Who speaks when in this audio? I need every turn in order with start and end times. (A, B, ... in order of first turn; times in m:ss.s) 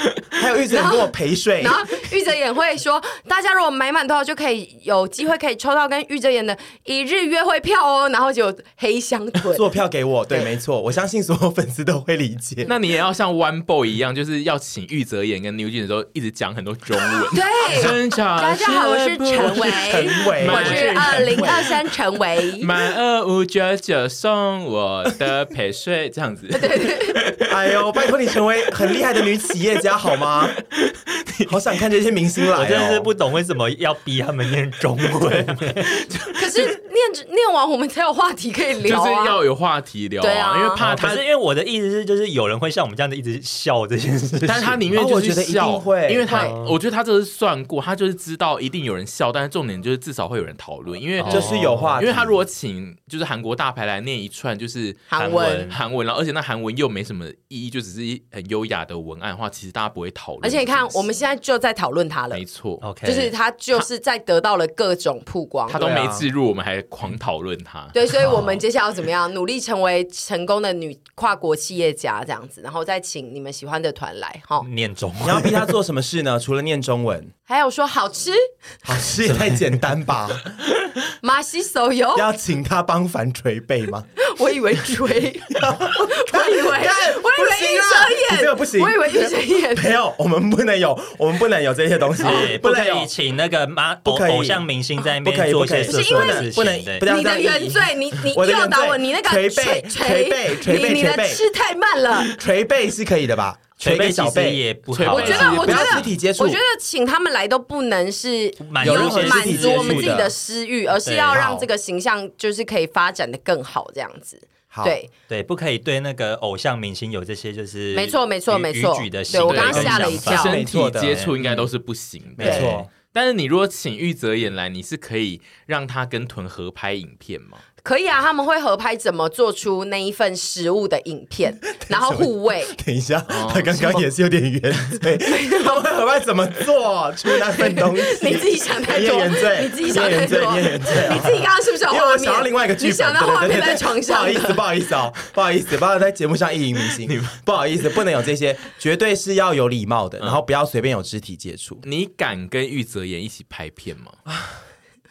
0:00.3-0:01.8 A
0:00.7-0:09.6 B
0:09.5-0:12.7 A
0:12.6-0:21.7 C
0:17.3-0:22.7 B
0:17.7-0:18.0 A
0:19.4-0:21.7 A
0:22.6-0:27.8 C
0:26.5-0:27.2 B
0:27.4-0:30.6 A
0:28.8-0:29.0 C
0:30.0-0:31.6 C
0:31.4-0:33.1 A
0:32.5-0:36.1 D
0:35.1-0:36.7 C
0:36.4-0:39.4 B
0:38.8-0:41.2 C
0:40.2-0:40.9 B
0:40.8-0:44.8 D
0:40.9-0:41.2 A
0:44.4-1:01.0 C
0:44.9-0:46.3 A
0:46.3-0:46.8 D
0:51.2-0:52.0 D
0:51.2-0:52.4 A
0:55.1-0:55.7 B
0:55.2-0:55.8 D
1:00.4-1:02.4 B
1:02.3-1:02.8 C
1:02.8-1:03.3 D
1:03.0-1:05.8 B
1:05.7-1:08.5 C
1:05.7-1:06.3 A
1:07.9-1:14.7 B
1:08.2-1:08.5 D
1:14.6-1:15.7 D
1:15.2-1:17.3 A
1:17.5-1:18.4 B
1:18.8-1:20.6 A
1:19.3-1:19.6 D
1:21.2-1:22.3 B
1:22.1-1:24.1 A
1:24.2-1:29.9 B
1:25.5-1:33.1 A
1:32.2-1:37.0 D
1:34.0-1:34.6 A
1:35.2-1:41.4 A
1:35.8-1:42.3 B
1:42.2-1:46.6 A
1:43.8-1:45.8 D
1:44.9-1:46.1 C
1:45.1-1:55.1 B
1:48.6-1:50.3 D
1:48.8-1:50.3 A
1:51.0-1:51.4 D
1:51.3-1:51.7 A
1:54.7-1:55.0 A
1:55.3-2:01.7 D
1:57.9-2:00.6 B
1:59.3-2:07.6 C
1:59.7-2:01.2 A
2:02.4-2:02.9 A
2:02.4-2:02.9 D
2:07.8-2:12.7 B
2:11.7-2:31.8 A
2:13.3-2:14.0 C
2:15.2-2:15.8 B
2:17.4-2:24.6 B
2:27.0-2:27.4 C
2:31.8-2:34.2 C
2:34.3-2:34.6 A